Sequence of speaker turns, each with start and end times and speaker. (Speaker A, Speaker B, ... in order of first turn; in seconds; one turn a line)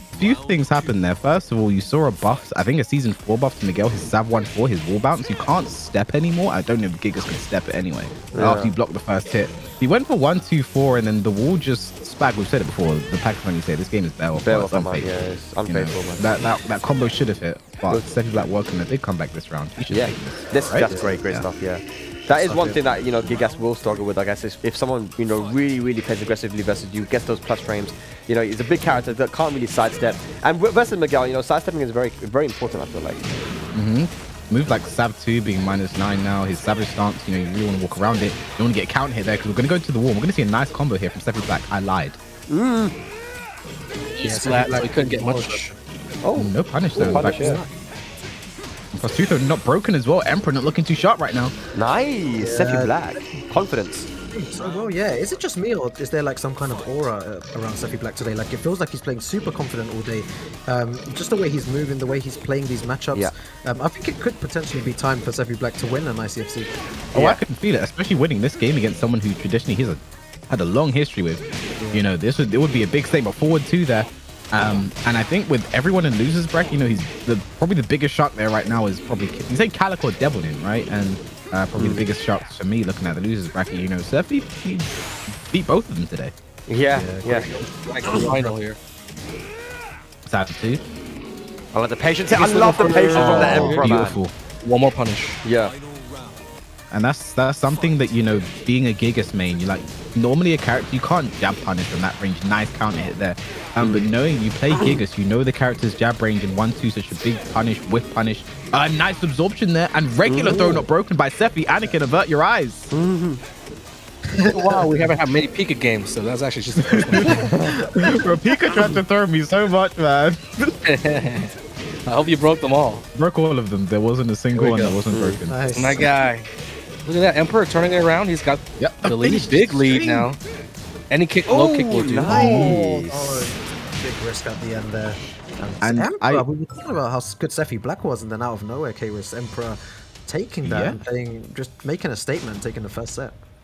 Speaker A: 0.1-15.1
Speaker B: 8.3-8.7
Speaker B: 14.4-16.5
Speaker A: 15.7-21.5
Speaker B: 17.9-18.5
Speaker B: 19.9-33.3
Speaker C: 20.9-21.2
Speaker C: 22.4-22.9
Speaker A: 33.7-42.2
Speaker B: 42.5-42.9
Speaker D: 44.2-45.7
Speaker C: 44.2-45.8
Speaker B: 46.2-47.6
Speaker A: 46.4-47.6
Speaker C: 47.0-47.7
Speaker A: 48.9-51.5
Speaker B: 51.7-54.1
Speaker C: 52.4-53.5
Speaker C: 54.3-66.8
Speaker B: 67.1-67.4
Speaker A: 67.1-86.3
Speaker C: 71.8-72.0
Speaker B: 81.8-82.0
Speaker B: 86.7-87.5
Speaker C: 86.9-88.5
Speaker D: 87.9-88.8
Speaker A: 90.3-90.8
Speaker B: 91.7-94.2
Speaker D: 92.3-93.9
Speaker C: 92.8-93.8
Speaker A: 93.1-94.3
Speaker D: 94.6-95.4
Speaker B: 95.4-95.7
Speaker A: 96.9-112.8
Speaker B: 103.8-104.1
Speaker B: 110.2-110.9
Speaker B: 112.9-113.4
Speaker C: 114.3-114.9
Speaker D: 114.5-117.5
Speaker A: 116.9-117.5
Speaker C: 117.4-118.1
Speaker A: 118.0-120.8
Speaker D: 120.8-121.5
Speaker D: 122.1-123.0
Speaker A: 123.2-126.0
Speaker D: 124.5-125.0
Speaker B: 125.1-125.4
Speaker C: 125.5-126.1
Speaker D: 125.7-126.5
Speaker D: 127.1-130.4
Speaker A: 128.8-130.3
Speaker D: 131.1-132.7
Speaker B: 131.5-133.5
Speaker A: 132.3-132.8
Speaker C: 132.3-143.4
Speaker A: 135.8-136.5
Speaker A: 140.6-141.0